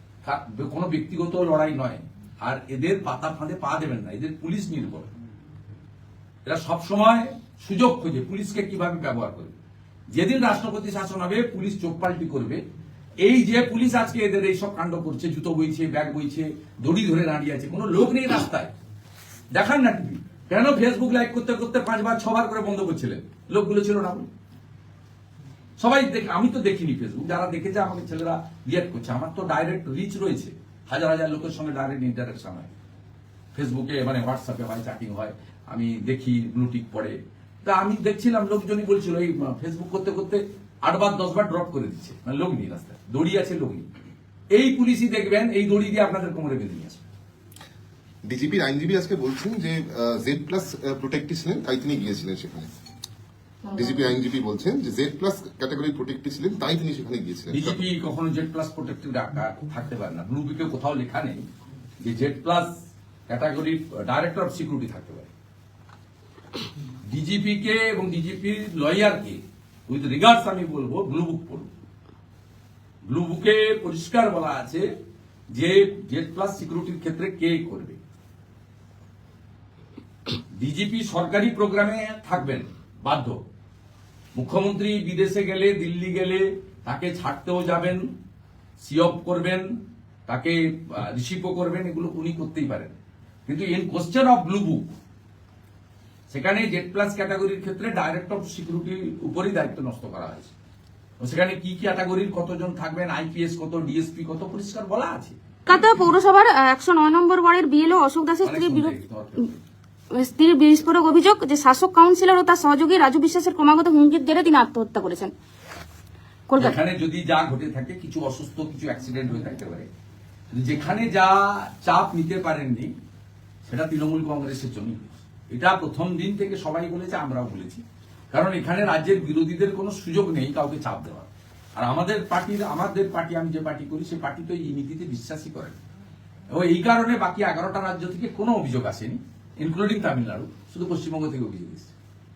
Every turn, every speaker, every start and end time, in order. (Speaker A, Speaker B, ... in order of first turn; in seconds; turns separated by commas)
Speaker A: 0.2-5.1, Speaker A: 6.5-9.5, Speaker A: 10.1-12.6, Speaker A: 13.2-18.7, Speaker A: 19.5-24.3, Speaker A: 25.8-32.8, Speaker A: 33.5-43.9, Speaker A: 44.5-47.0, Speaker B: 48.2-52.7, Speaker C: 53.7-54.0, Speaker B: 53.7-57.9, Speaker A: 57.5-61.5, Speaker A: 62.0-62.7, Speaker A: 63.3-65.3, Speaker A: 67.1-71.7, Speaker A: 73.1-74.9, Speaker A: 75.5-78.0, Speaker A: 80.5-83.4, Speaker A: 84.3-88.0, Speaker A: 88.8-89.7, Speaker A: 90.3-93.0, Speaker A: 93.5-94.9, Speaker A: 96.3-100.5, Speaker A: 101.2-105.4, Speaker C: 105.7-109.0, Speaker A: 108.4-109.6, Speaker C: 110.1-115.3, Speaker C: 116.5-116.8, Speaker A: 116.6-119.9, Speaker A: 120.5-122.9, Speaker A: 123.7-135.8, Speaker A: 136.5-141.9